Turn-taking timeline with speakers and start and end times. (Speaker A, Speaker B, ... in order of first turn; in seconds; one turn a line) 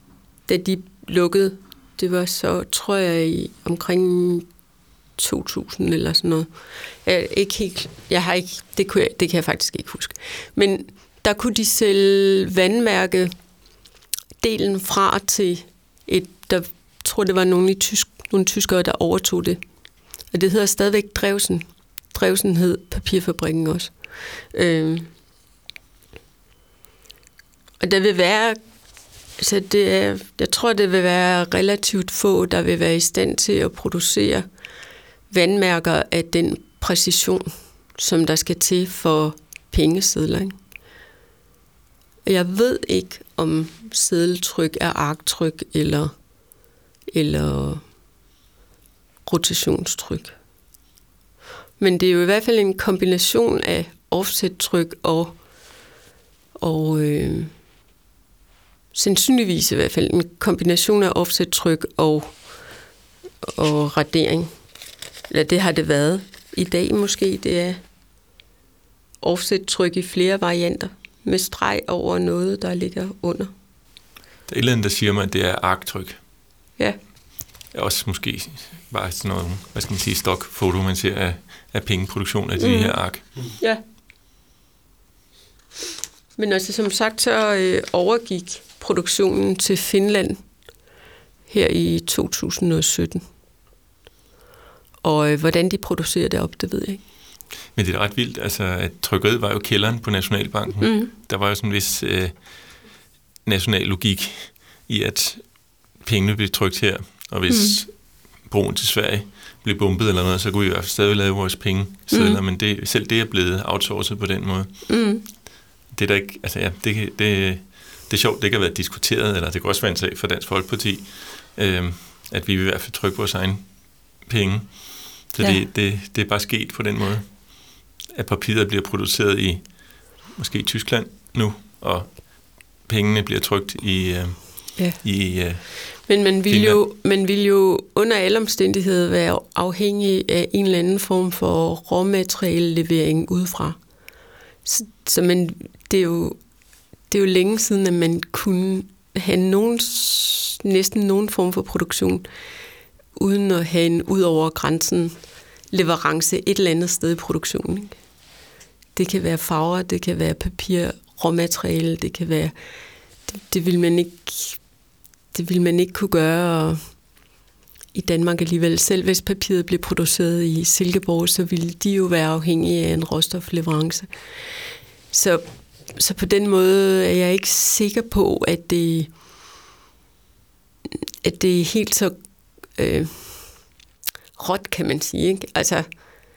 Speaker A: 0.5-4.5
Speaker A: 5.2-6.5
Speaker A: 7.0-13.3
Speaker A: 14.4-19.6
Speaker A: 20.3-24.0
Speaker A: 24.5-25.1
Speaker A: 27.8-28.6
Speaker A: 29.4-34.5
Speaker A: 35.3-40.5
Speaker A: 42.2-46.1
Speaker A: 47.1-47.8
Speaker A: 49.2-50.3
Speaker A: 51.8-55.4
Speaker A: 56.5-57.5
Speaker A: 58.9-62.4
Speaker A: 63.4-64.5
Speaker A: 65.3-67.8
Speaker A: 69.2-73.5
Speaker B: 74.5-76.2
Speaker B: 77.7-83.2
Speaker A: 82.6-83.8
Speaker A: 86.4-90.4
Speaker A: 91.5-93.2
Speaker A: 95.0-97.0
Speaker B: 97.7-102.9
Speaker A: 100.8-101.1
Speaker B: 103.4-115.3
Speaker A: 107.5-107.8
Speaker A: 112.1-112.4
Speaker A: 114.9-115.2
Speaker B: 115.9-136.8
Speaker A: 136.1-143.8
Speaker A: 144.6-146.4
Speaker A: 147.1-152.2
Speaker A: 153.1-155.2
Speaker A: 155.7-157.9
Speaker A: 158.9-162.5
Speaker A: 163.2-164.6
Speaker A: 165.3-167.0
Speaker A: 167.9-179.1
Speaker A: 181.2-182.1
Speaker A: 182.7-183.7
Speaker A: 184.3-185.8